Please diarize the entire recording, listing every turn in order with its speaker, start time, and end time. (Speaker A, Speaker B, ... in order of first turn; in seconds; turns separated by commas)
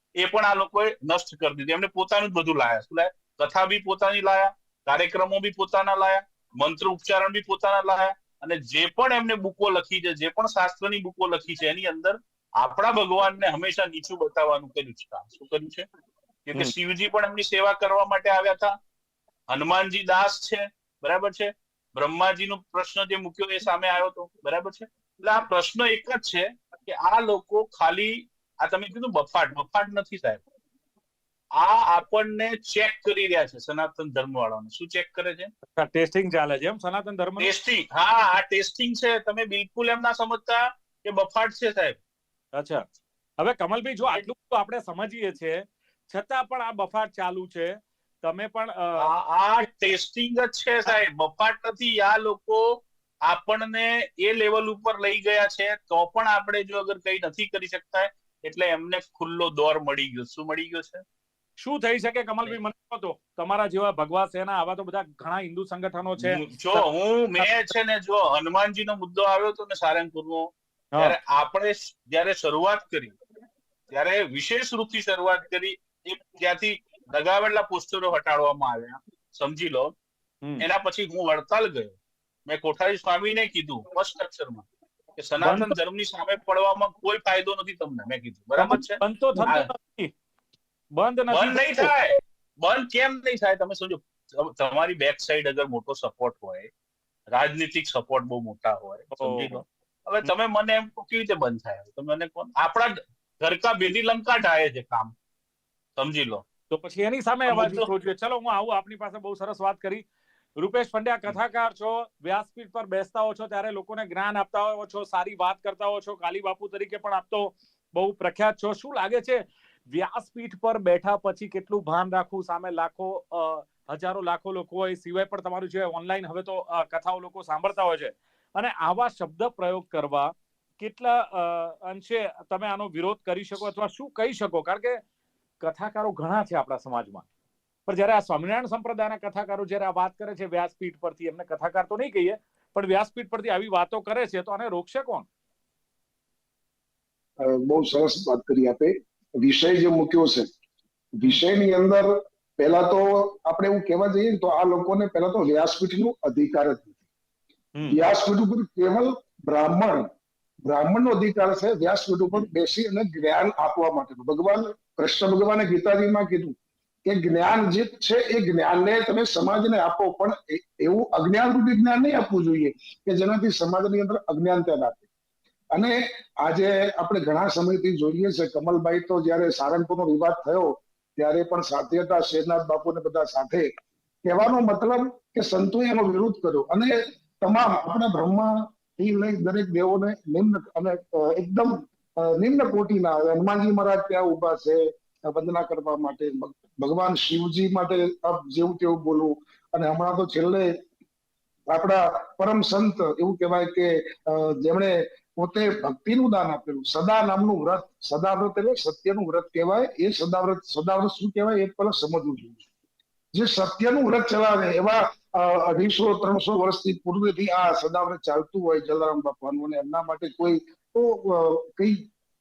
Speaker A: 0.1-15.9, Speaker A: 16.4-18.8, Speaker A: 19.5-30.4, Speaker A: 31.5-35.5, Speaker B: 35.8-37.5, Speaker A: 37.4-42.0, Speaker B: 42.5-42.8, Speaker B: 43.4-49.1, Speaker A: 49.0-61.0, Speaker B: 61.6-66.9, Speaker A: 66.2-73.2, Speaker B: 67.4-67.7, Speaker A: 73.9-79.9, Speaker A: 80.6-81.9, Speaker A: 82.5-89.7, Speaker B: 85.4-85.8, Speaker B: 88.6-90.1, Speaker B: 91.0-91.9, Speaker A: 91.3-96.7, Speaker A: 97.3-105.1, Speaker B: 99.1-99.6, Speaker A: 106.0-106.4, Speaker B: 106.7-110.0, Speaker A: 107.5-107.9, Speaker B: 110.6-135.0, Speaker B: 135.6-137.2, Speaker B: 137.8-145.3, Speaker C: 147.4-150.5, Speaker C: 151.1-157.0, Speaker C: 157.9-160.1, Speaker C: 160.6-166.6, Speaker C: 167.1-175.1, Speaker C: 175.7-183.7, Speaker C: 184.2-200.8, Speaker C: 201.7-212.7, Speaker C: 213.3-222.0